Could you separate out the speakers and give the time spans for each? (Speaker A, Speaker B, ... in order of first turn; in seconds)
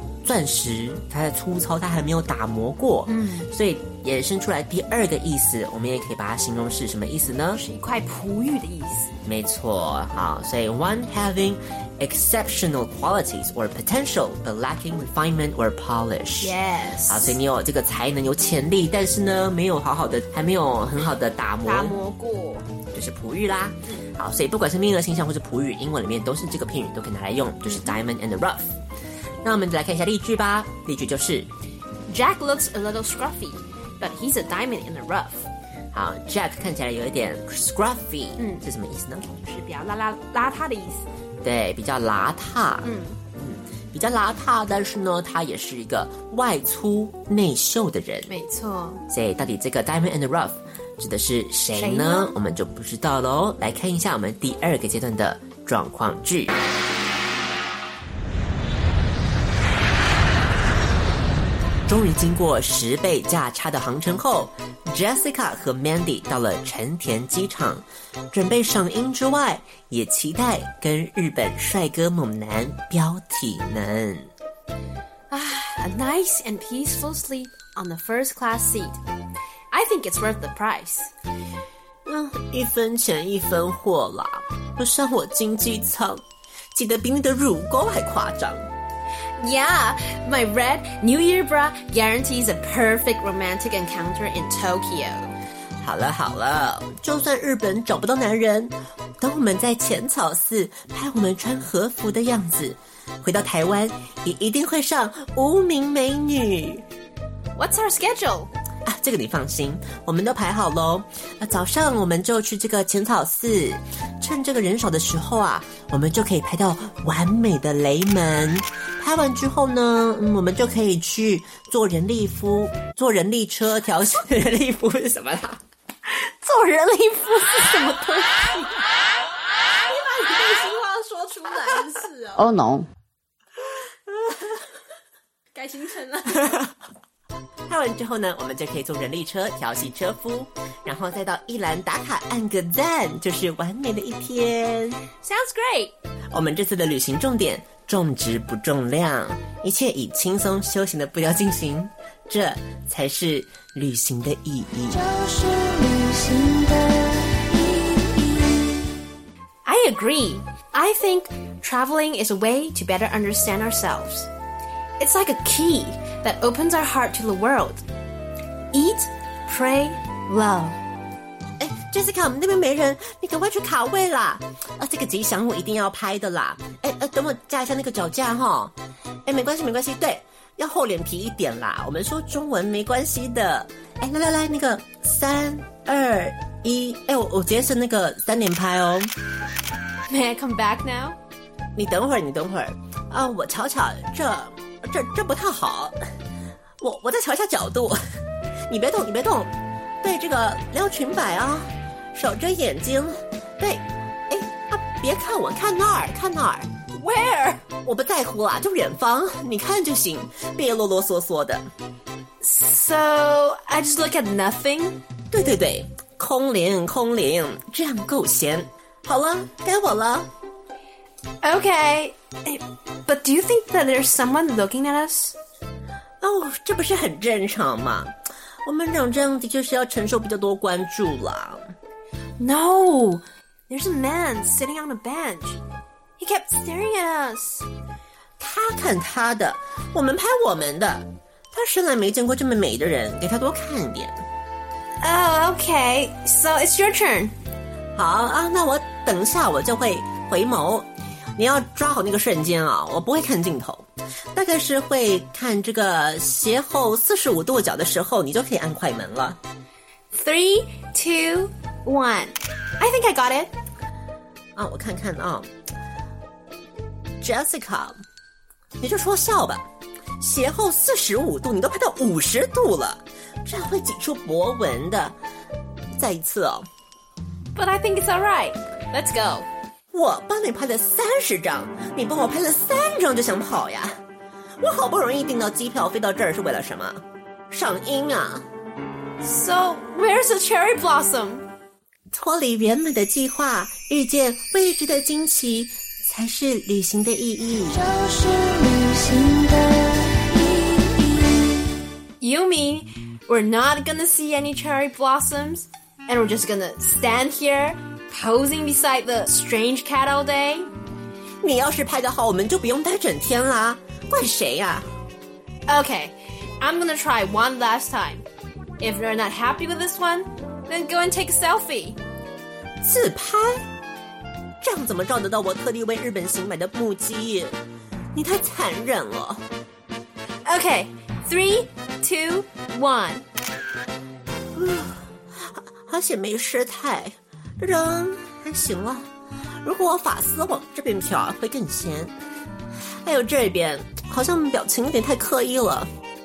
Speaker A: 0.2-7.6, 9.2-22.0, 22.9-28.8, 29.4-31.5, 35.9-39.3, 41.4-48.3, 49.1-56.5, 61.9-74.3, 82.0-88.7, 95.8-106.8, 108.8-125.6, 137.7-145.0, 146.3-155.0, 171.6-189.1, 191.8-196.0, 196.8-198.0, 198.7-206.7, 207.8-211.7, 215.3-220.3, 226.2-228.1, 228.6-231.7, 238.4-244.2, 247.9-259.4, 264.6-265.5, 267.2-268.0, 268.8-269.6, 270.2-275.2, 275.9-276.7, 279.9-284.0, 284.6-288.5, 292.1-297.9, 311.4-314.9, 322.8-323.6, 324.6-327.6, 328.1-329.4, 334.6-339.1, 339.6-342.1, 342.8-345.9
Speaker B: 3.1-3.5, 7.5-9.1, 16.4-17.4, 21.6-22.7, 27.7-28.0, 32.1-35.5, 38.4-38.6, 39.4-41.1, 42.8-43.2, 48.3-49.0, 51.8-52.4, 75.3-79.0, 79.7-81.1, 89.4-95.4, 107.6-108.5, 126.1-128.8, 129.9-132.5, 135.6-136.6, 145.2-145.9, 159.7-164.3, 165.0-167.8, 168.7-170.8, 190.1-191.2, 206.9-207.6, 212.4-215.0, 221.4-225.4, 232.4-235.6, 236.2-237.7, 245.0-247.3, 260.1-263.5, 277.6-279.5, 289.2-291.5, 302.2-310.7, 315.7-318.2, 318.8-322.0, 330.5-333.2
Speaker C: 132.5-132.8, 154.9-158.6, 297.7-301.5